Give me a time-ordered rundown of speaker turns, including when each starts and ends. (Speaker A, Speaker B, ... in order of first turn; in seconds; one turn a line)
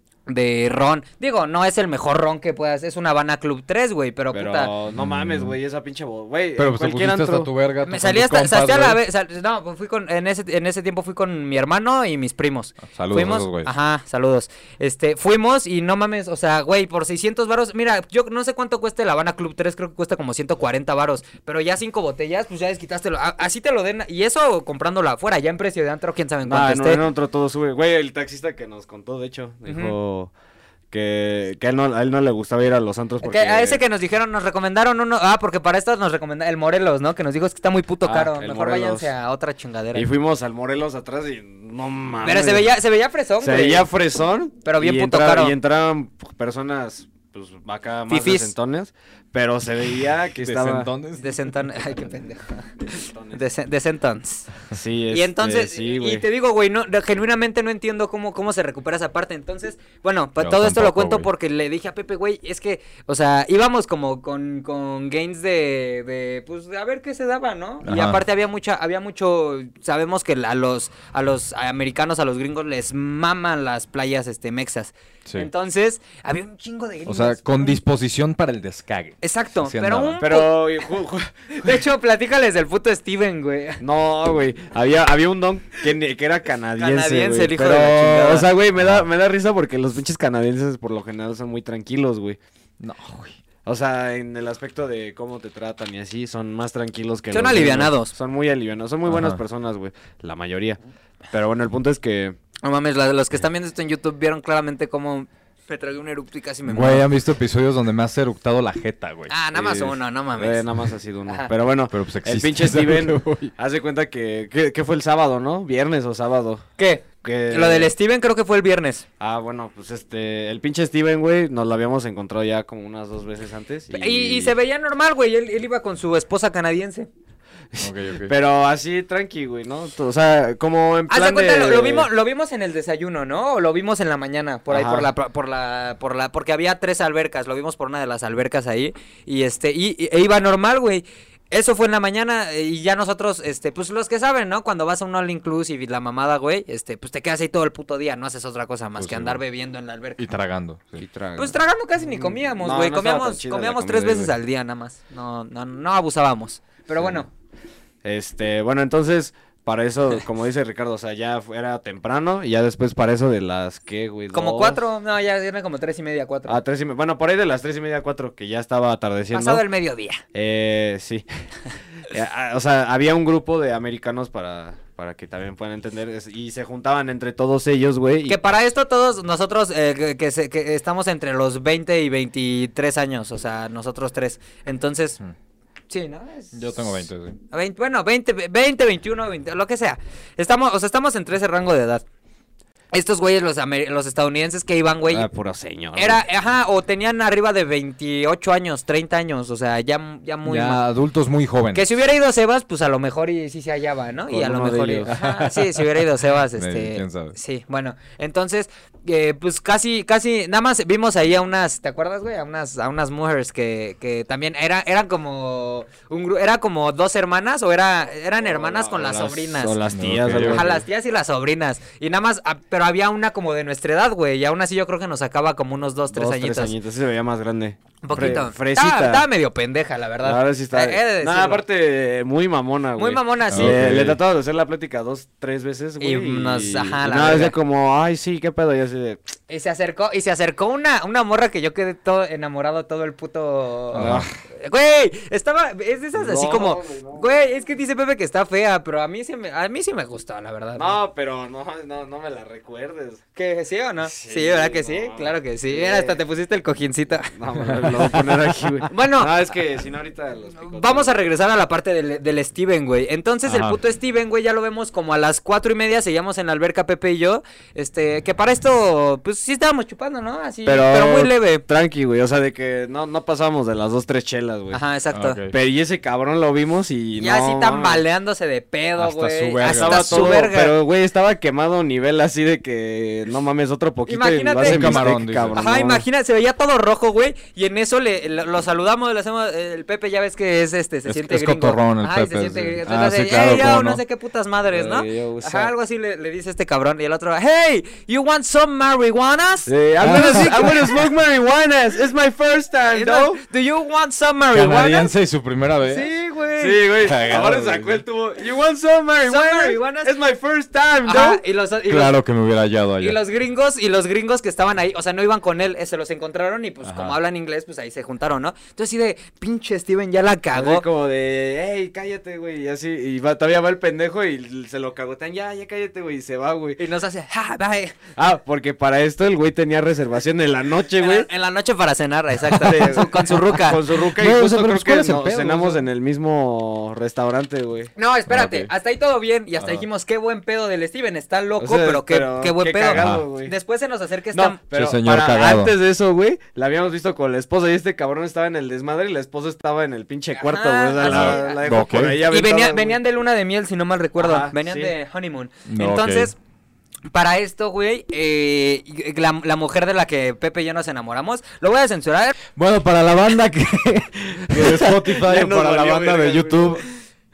Speaker A: 0.3-4.7
Speaker B: 4.3-7.5
Speaker C: 5.0-5.6
Speaker C: 6.6-9.0
Speaker A: 7.8-27.0
Speaker C: 12.8-13.7
Speaker B: 26.4-30.3
Speaker A: 29.7-29.9
Speaker B: 30.9-33.8
Speaker A: 33.2-40.1
Speaker B: 38.0-39.1
Speaker B: 39.9-42.7
Speaker A: 42.2-43.9
Speaker B: 43.4-50.9
Speaker A: 44.6-45.5
Speaker A: 48.1-48.5
Speaker C: 50.4-51.5
Speaker A: 51.2-54.5
Speaker B: 52.9-53.4
Speaker B: 54.7-56.2
Speaker A: 55.1-77.8
Speaker C: 60.4-61.3
Speaker C: 67.8-68.2
Speaker C: 77.1-80.2
Speaker A: 79.2-80.9
Speaker B: 80.2-81.8
Speaker A: 81.5-83.8
Speaker B: 83.8-92.4
Speaker A: 86.8-88.5
Speaker C: 88.8-89.1
Speaker C: 92.8-93.4
Speaker B: 93.7-100.8
Speaker A: 97.3-98.1
Speaker C: 99.1-99.4
Speaker B: 101.3-102.4
Speaker A: 102.6-107.1
Speaker C: 106.7-109.3
Speaker A: 109.3-110.7
Speaker B: 109.5-116.6
Speaker C: 111.9-113.5
Speaker A: 116.8-119.0
Speaker B: 117.2-117.9
Speaker B: 119.2-124.5
Speaker A: 123.9-127.1
Speaker B: 127.7-132.1
Speaker C: 127.8-128.3
Speaker A: 131.1-150.2
Speaker B: 134.7-135.1
Speaker C: 149.0-149.4
Speaker C: 150.2-151.1
Speaker B: 151.0-154.3
Speaker A: 151.4-157.3
Speaker B: 157.0-157.2
Speaker B: 158.0-164.8
Speaker A: 164.3-166.6
Speaker B: 166.5-169.6
Speaker A: 169.3-170.2
Speaker B: 170.3-171.3
Speaker B: 172.0-178.4
Speaker A: 178.3-185.2
Speaker A: 185.9-186.9
Speaker C: 186.5-187.4
Speaker A: 187.5-192.0
Speaker A: 192.9-195.3
Speaker B: 195.1-196.2
Speaker A: 196.0-200.8
Speaker C: 200.4-201.9
Speaker A: 201.7-219.8
Speaker B: 204.3-205.2
Speaker C: 205.1-205.7
Speaker C: 206.6-207.4
Speaker B: 218.4-220.8
Speaker C: 219.9-220.7
Speaker A: 220.5-226.7
Speaker B: 226.1-229.3
Speaker A: 228.0-231.6
Speaker B: 230.2-239.2
Speaker A: 233.0-233.8
Speaker C: 233.5-234.2
Speaker A: 236.0-237.5
Speaker A: 239.5-244.0
Speaker C: 243.9-244.3
Speaker B: 243.9-244.3
Speaker A: 244.6-250.9
Speaker B: 246.2-247.3
Speaker B: 250.8-253.2
Speaker A: 253.4-257.3
Speaker B: 254.0-256.2
Speaker B: 257.3-261.2
Speaker A: 258.9-259.4
Speaker A: 260.6-271.6
Speaker C: 263.5-263.8
Speaker B: 270.7-274.8
Speaker A: 274.7-275.4
Speaker C: 275.1-275.6
Speaker B: 275.5-278.0
Speaker A: 277.2-280.8
Speaker C: 279.0-280.5
Speaker B: 279.6-286.0
Speaker A: 284.1-301.0
Speaker C: 284.6-285.6
Speaker C: 291.1-294.0
Speaker B: 294.7-295.7
Speaker B: 299.7-303.4
Speaker C: 300.0-300.9
Speaker A: 302.9-305.1
Speaker C: 304.5-306.1
Speaker A: 305.9-306.8
Speaker B: 306.6-311.4
Speaker C: 307.0-308.0
Speaker A: 309.3-310.1
Speaker A: 311.1-312.2
Speaker C: 311.9-313.2
Speaker A: 313.0-320.9
Speaker C: 316.8-317.1
Speaker B: 320.5-326.8
Speaker A: 326.8-327.9
Speaker B: 328.2-331.3
Speaker A: 331.0-333.8
Speaker B: 332.5-337.9
Speaker C: 334.1-335.9
Speaker A: 338.0-344.6
Speaker C: 338.3-338.7
Speaker C: 339.6-339.9
Speaker B: 341.6-343.6
Speaker C: 342.9-343.2
Speaker B: 344.3-353.0
Speaker C: 344.7-345.7
Speaker A: 350.4-351.6
Speaker C: 351.0-352.2
Speaker A: 352.3-356.4
Speaker B: 354.2-354.9
Speaker C: 355.7-356.3
Speaker A: 357.1-362.4
Speaker C: 362.6-366.9
Speaker B: 364.5-366.9